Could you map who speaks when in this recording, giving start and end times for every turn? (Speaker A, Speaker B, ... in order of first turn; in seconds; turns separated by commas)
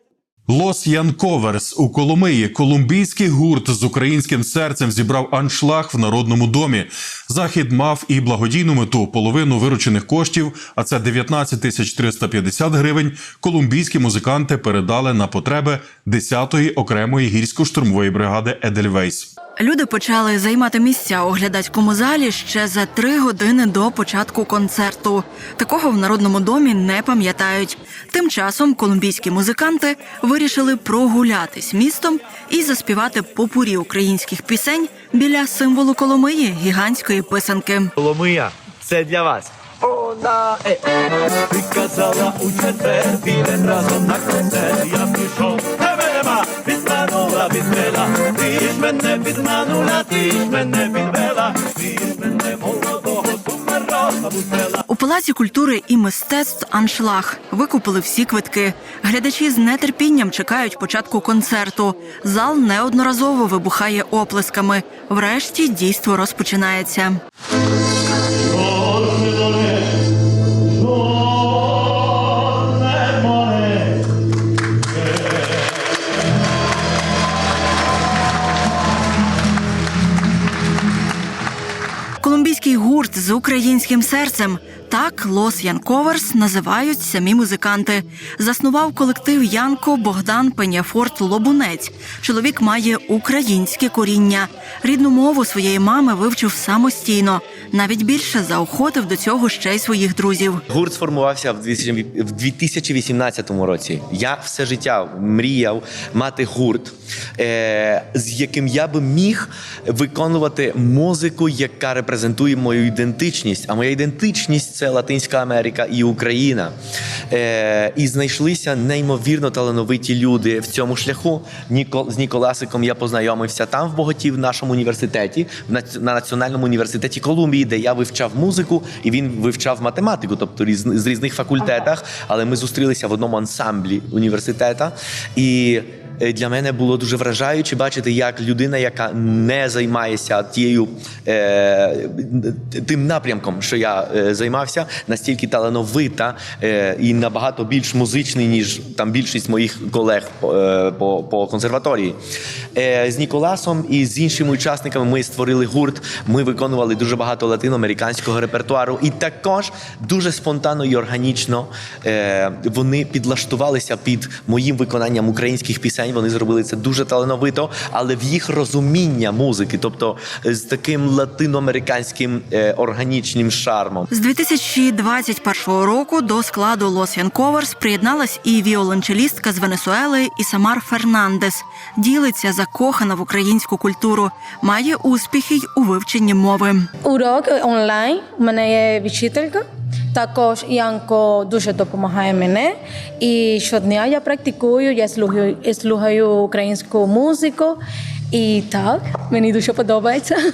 Speaker A: 0.5-19.3, Speaker B: 19.6-37.9, Speaker C: 38.0-39.5, Speaker D: 39.9-40.6, Speaker D: 41.5-54.8, Speaker B: 54.9-67.2, Speaker D: 68.6-69.5, Speaker D: 72.5-73.8, Speaker B: 82.2-100.6, Speaker C: 100.7-116.7, Speaker C: 117.3-152.2, Speaker C: 152.7-174.1, Speaker B: 174.1-186.9, Speaker E: 187.0-197.8, Speaker E: 198.3-200.4